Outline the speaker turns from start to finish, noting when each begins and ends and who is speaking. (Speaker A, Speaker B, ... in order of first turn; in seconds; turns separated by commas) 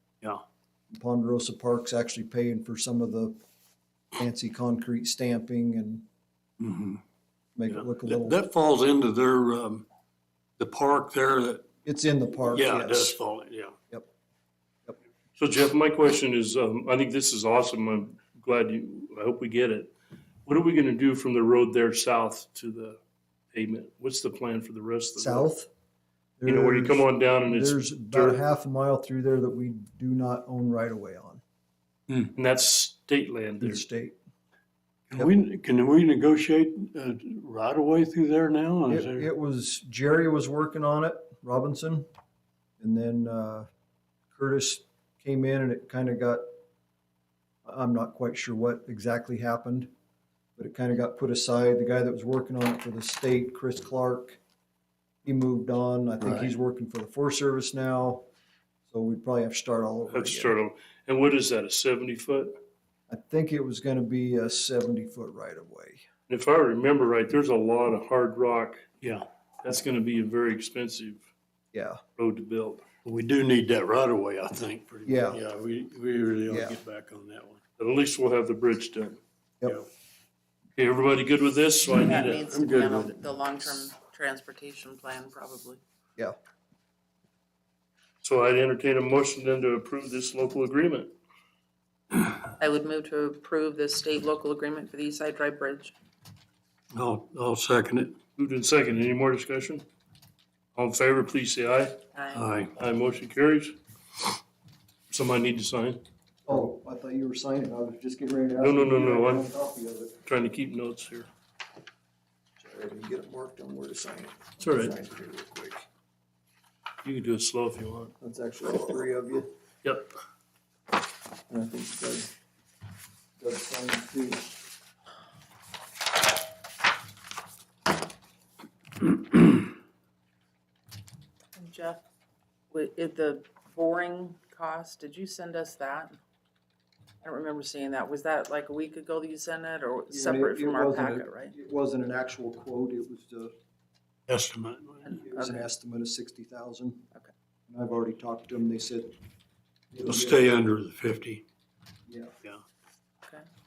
Speaker A: 0.9-3.4, Speaker A: 4.2-6.1, Speaker B: 6.6-7.0, Speaker A: 7.6-8.4, Speaker B: 7.7-9.9, Speaker B: 10.6-11.7, Speaker A: 11.8-13.2, Speaker B: 12.5-13.8, Speaker C: 15.4-19.9, Speaker C: 20.4-23.0, Speaker C: 23.5-25.5, Speaker A: 25.2-25.7, Speaker A: 26.4-31.4, Speaker C: 26.5-28.4, Speaker C: 32.3-33.8, Speaker A: 33.6-34.2, Speaker B: 35.1-39.3, Speaker A: 38.9-42.1, Speaker A: 42.8-43.7, Speaker A: 44.3-46.5, Speaker A: 47.6-49.9, Speaker A: 50.6-54.4, Speaker A: 55.2-58.2, Speaker A: 58.9-60.5, Speaker C: 60.1-62.5, Speaker A: 63.1-66.0, Speaker C: 66.3-68.9, Speaker C: 69.6-71.2, Speaker A: 71.7-72.0, Speaker C: 72.2-72.8, Speaker B: 73.0-77.6, Speaker A: 75.1-75.4, Speaker A: 76.5-76.8, Speaker C: 77.8-79.2, Speaker C: 80.8-82.4, Speaker D: 81.8-85.8, Speaker B: 82.5-83.2, Speaker C: 88.2-91.1, Speaker D: 92.6-95.9, Speaker B: 96.9-98.2, Speaker C: 98.4-99.8, Speaker C: 100.8-102.0, Speaker D: 102.1-102.5, Speaker B: 102.3-102.7, Speaker C: 102.8-103.8, Speaker C: 105.1-106.0, Speaker A: 106.5-110.2, Speaker C: 108.6-109.5, Speaker C: 110.3-111.3, Speaker A: 112.6-115.8, Speaker C: 114.6-115.0, Speaker C: 117.0-118.1, Speaker A: 118.2-119.5, Speaker C: 119.8-120.1, Speaker A: 121.5-122.3, Speaker A: 123.4-124.5, Speaker D: 131.6-132.0, Speaker D: 132.7-136.2, Speaker D: 137.2-141.5, Speaker A: 140.1-143.5, Speaker B: 144.3-145.2, Speaker D: 145.0-145.6, Speaker A: 145.2-147.1, Speaker A: 147.7-149.2, Speaker A: 149.9-150.5, Speaker B: 150.0-151.4, Speaker A: 152.1-152.3